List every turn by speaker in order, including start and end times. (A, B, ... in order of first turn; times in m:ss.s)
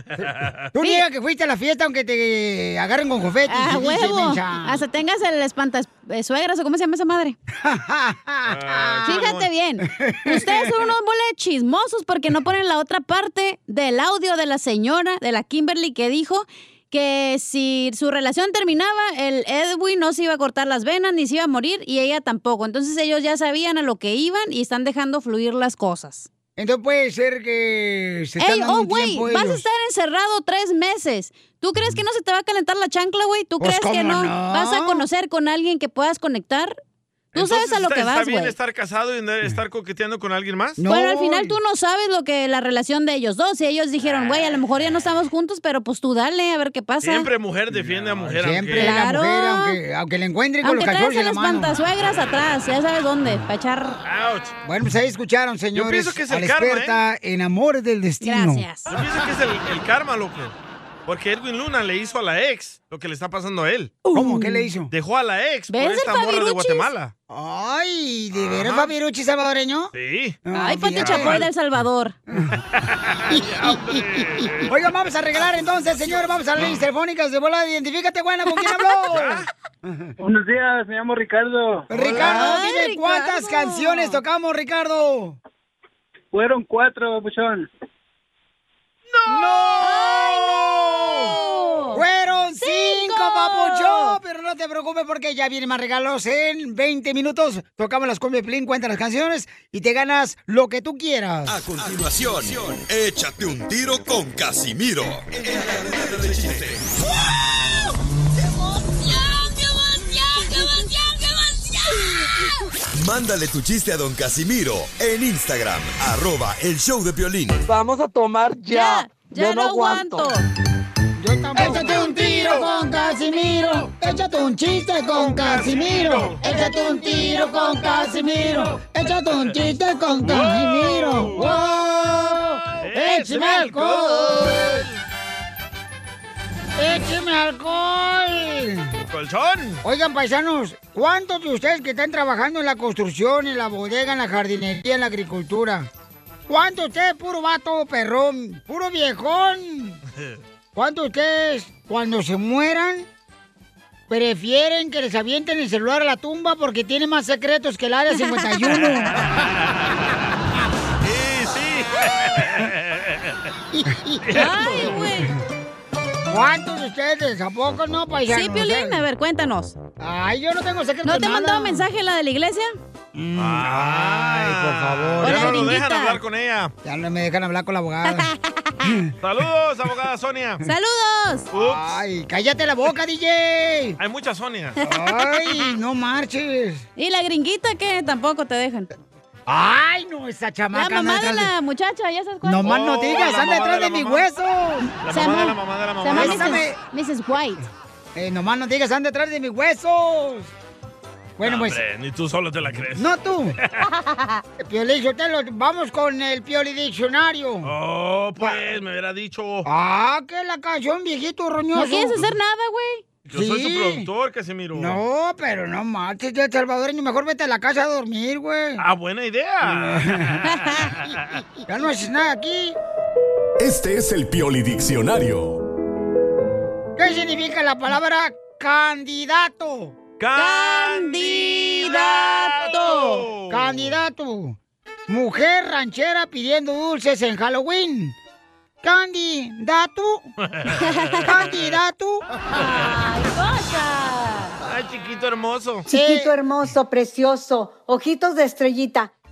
0:00.2-0:00.6 A
0:00.2-0:04.8 B
0:03.5-0:07.4 C
0:07.6-0:09.2 B
0:08.5-0:09.5 A
0:09.0-0:26.3 C
0:09.8-0:10.7 B
0:26.6-0:29.6 B
0:28.4-0:36.8 C
0:33.6-0:35.0 B
0:37.3-0:38.5 C
0:37.3-0:40.8 A
0:40.8-0:41.6 B
0:40.8-0:47.3 C
0:44.0-0:44.4 A
0:47.0-0:49.0 A
0:48.2-0:51.8 B
0:48.8-0:49.8 C
0:50.6-0:54.0 C
0:54.0-0:54.5 A
0:54.6-0:58.7 B
0:55.8-0:57.0 A
0:58.2-0:58.9 C
0:58.9-1:00.6 A
1:01.1-1:04.1 A
1:04.0-1:04.7 C
1:04.1-1:04.9 B
1:04.9-1:07.1 A
1:05.7-1:06.9 C
1:07.3-1:09.9 B
1:08.4-1:08.9 A
1:09.9-1:10.4 A
1:10.5-1:11.4 B
1:10.5-1:12.2 C
1:11.0-1:11.4 A
1:12.3-1:12.6 B
1:12.7-1:14.7 A
1:14.7-1:20.1 B
1:15.5-1:16.8 A
1:19.1-1:19.5 A
1:20.2-1:22.0 D
1:21.9-1:25.4 B
1:22.0-1:22.3 A
1:22.1-1:24.2 C
1:26.3-1:27.7 D
1:29.3-1:30.3 A
1:29.8-1:32.0 C
1:31.9-1:41.6 B
1:32.6-1:34.2 C
1:41.5-1:46.9 E
1:50.3-1:50.9 C
1:53.0-1:57.6 E
1:57.7-2:00.4 F
1:58.7-2:00.4 C
2:01.2-2:14.8 B
2:01.6-2:02.7 C
2:01.7-2:02.5 A
2:05.1-2:06.4 A
2:06.4-2:08.1 C
2:10.2-2:11.6 A
2:12.8-2:14.9 A
2:16.8-2:18.9 B
2:19.1-2:19.8 A
2:19.8-2:25.9 B
2:26.5-2:30.0 B
2:30.8-2:33.1 B
2:34.1-2:39.2 B
2:41.0-2:43.4 A
2:43.9-2:44.9 B
2:44.2-2:45.0 A
2:44.3-2:45.3 C
2:46.3-2:49.0 B
2:48.3-2:49.8 C
2:50.0-2:51.9 B
2:51.0-2:52.7 C
2:53.2-2:55.7 B
2:53.4-2:56.7 A
2:55.2-2:56.2 C
2:56.8-2:58.3 B
2:58.1-2:58.4 C
2:58.8-2:59.1 B
2:59.2-3:00.6 A
3:00.6-3:01.5 C
3:01.5-3:04.0 B
3:01.5-3:02.0 A
3:04.0-3:04.8 A
3:04.8-3:06.9 B
3:07.0-3:08.9 C
3:09.5-3:11.5 B
3:10.7-3:12.7 C
3:12.4-3:14.9 B
3:12.6-3:14.3 A
3:15.0-3:16.6 A
3:15.1-3:17.6 C
3:16.1-3:16.8 B
3:18.2-3:20.5 B
3:21.4-3:21.8 B
3:21.4-3:23.9 A
3:23.0-3:23.6 B
3:24.6-3:27.7 B
3:27.6-3:29.7 A
3:28.4-3:28.7 B
3:29.6-3:32.2 B
3:31.7-3:33.1 C
3:33.3-3:34.1 B
3:33.3-3:35.0 A
3:34.8-3:38.8 B
3:38.8-3:41.4 A
3:39.6-3:40.4 B
3:41.7-3:42.8 B
3:43.6-3:45.6 G
3:47.0-3:50.0 B
3:50.2-3:53.9 A
3:50.3-3:53.3 C
3:53.5-3:58.2 B
3:58.8-4:00.3 B
4:00.8-4:01.3 C
4:01.2-4:02.2 B
4:02.5-4:04.5 C
4:04.6-4:05.9 A
4:05.9-4:09.1 H
4:05.9-4:06.3 B